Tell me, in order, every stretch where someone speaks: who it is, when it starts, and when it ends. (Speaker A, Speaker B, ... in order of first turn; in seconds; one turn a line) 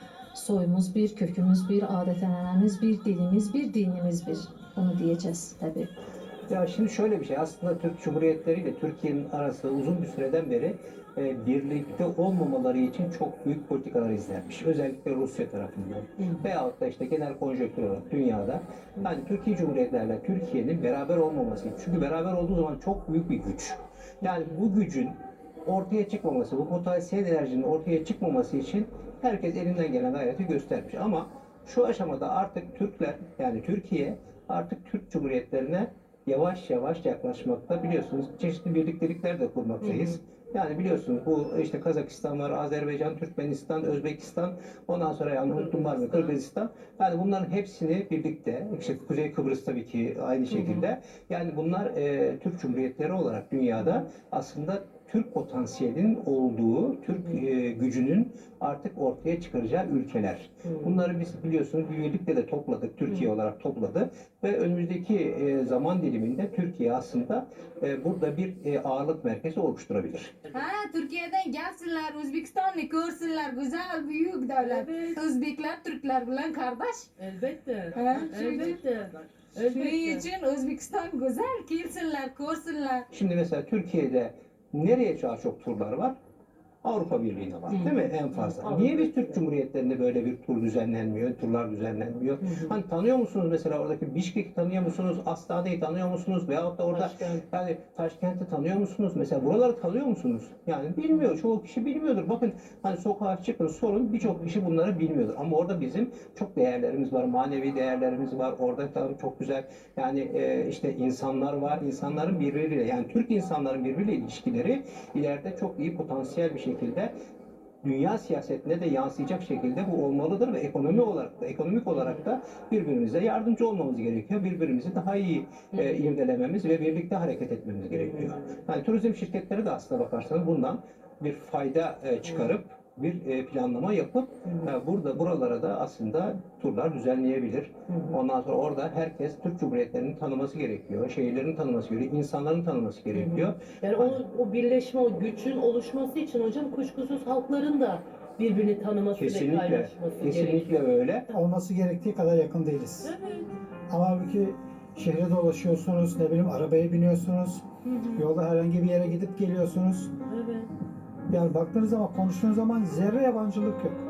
Speaker A: 0.3-5.9
Speaker B: 6.5-70.3
Speaker C: 70.5-77.1
Speaker D: 77.2-78.7
Speaker C: 77.9-78.8
Speaker C: 79.6-83.0
Speaker B: 83.1-86.1
Speaker B: 86.8-117.1
Speaker B: 117.8-144.2
Speaker D: 143.1-150.8
Speaker B: 149.2-151.3
Speaker E: 151.3-153.1
Speaker D: 153.1-153.5
Speaker E: 153.9-157.6
Speaker E: 158.2-160.1
Speaker E: 161.3-164.0